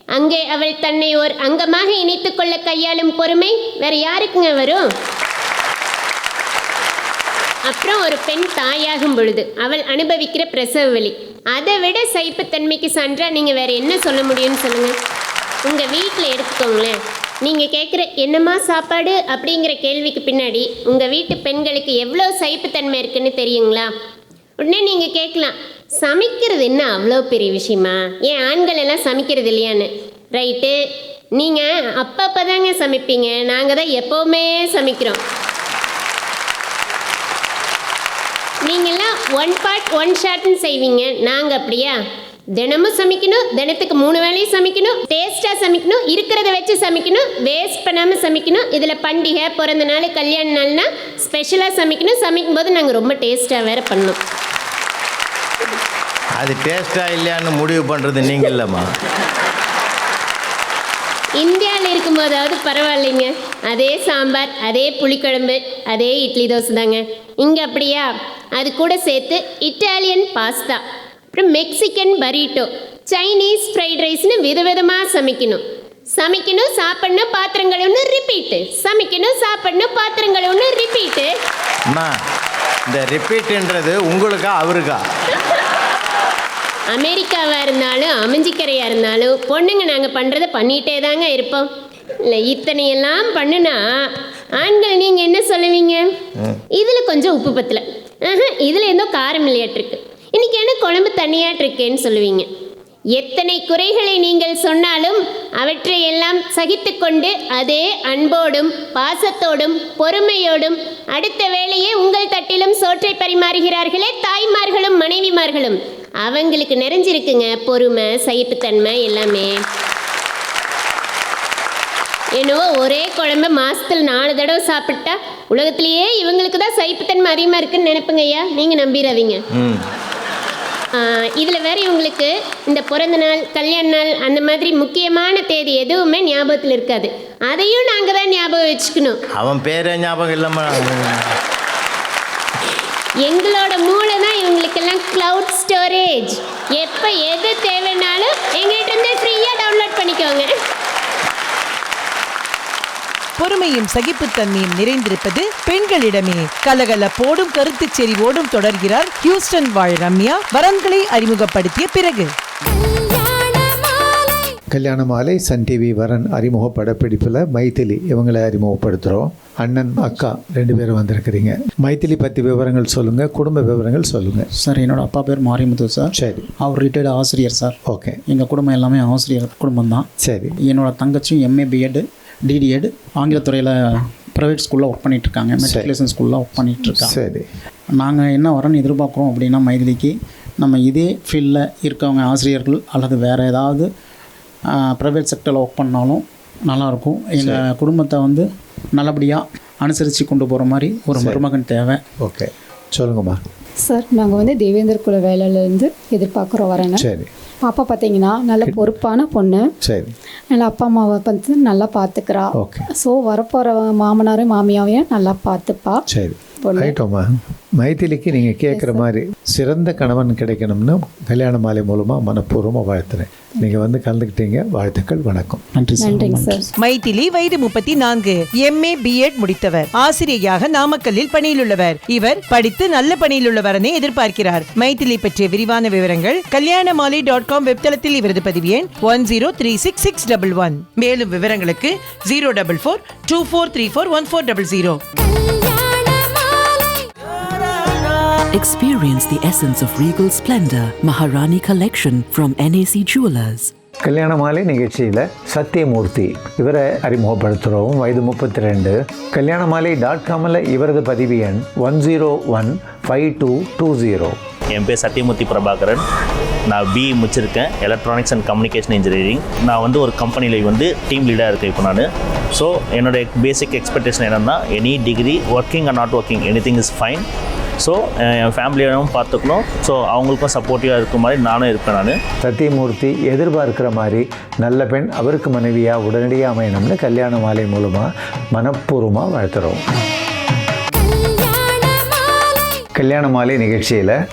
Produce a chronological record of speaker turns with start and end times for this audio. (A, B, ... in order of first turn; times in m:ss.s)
0:00.2-0:04.9 A
0:07.7-0:15.0 A
0:15.6-0:23.9 A
0:24.6-0:30.8 A
0:31.4-0:35.2 A
0:38.6-0:42.0 A
0:42.6-0:54.2 A
0:56.4-0:58.9 B
1:01.4-1:10.8 A
1:11.3-1:15.6 A
1:16.2-1:21.3 A
1:21.9-1:22.2 B
1:22.9-1:25.0 B
1:26.9-1:31.7 A
1:32.2-1:36.1 A
1:36.8-1:42.5 A
1:43.1-1:59.6 A
2:02.4-2:09.4 A
2:09.5-2:09.9 B
2:10.9-2:19.2 A
2:19.4-2:21.3 B
2:23.2-2:30.5 A
2:33.4-2:42.3 C
2:44.7-2:54.5 D
2:54.6-2:57.8 E
2:56.1-2:56.5 D
2:57.9-2:58.2 D
2:58.3-3:00.1 E
3:00.2-3:00.5 D
3:00.6-3:07.2 E
3:05.6-3:05.9 D
3:06.8-3:07.4 D
3:07.9-3:13.9 E
3:14.7-3:22.0 E
3:17.4-3:17.6 D
3:21.1-3:21.4 D
3:22.2-3:23.4 D
3:23.8-3:27.1 F
3:26.9-3:27.3 D
3:27.6-3:29.7 F
3:29.8-3:30.1 D
3:30.5-3:36.0 F
3:32.5-3:32.9 D
3:36.1-3:45.6 D
3:36.6-3:37.0 F
3:38.7-3:39.0 F
3:45.7-3:46.6 E
3:46.0-3:46.7 F
3:46.8-4:05.0 C
4:08.5-4:13.7 G
4:14.0-4:24.4 D
4:24.7-4:26.0 H
4:26.7-4:37.2 H
4:37.8-4:42.2 H
4:42.4-4:49.8 D
4:52.9-4:54.2 D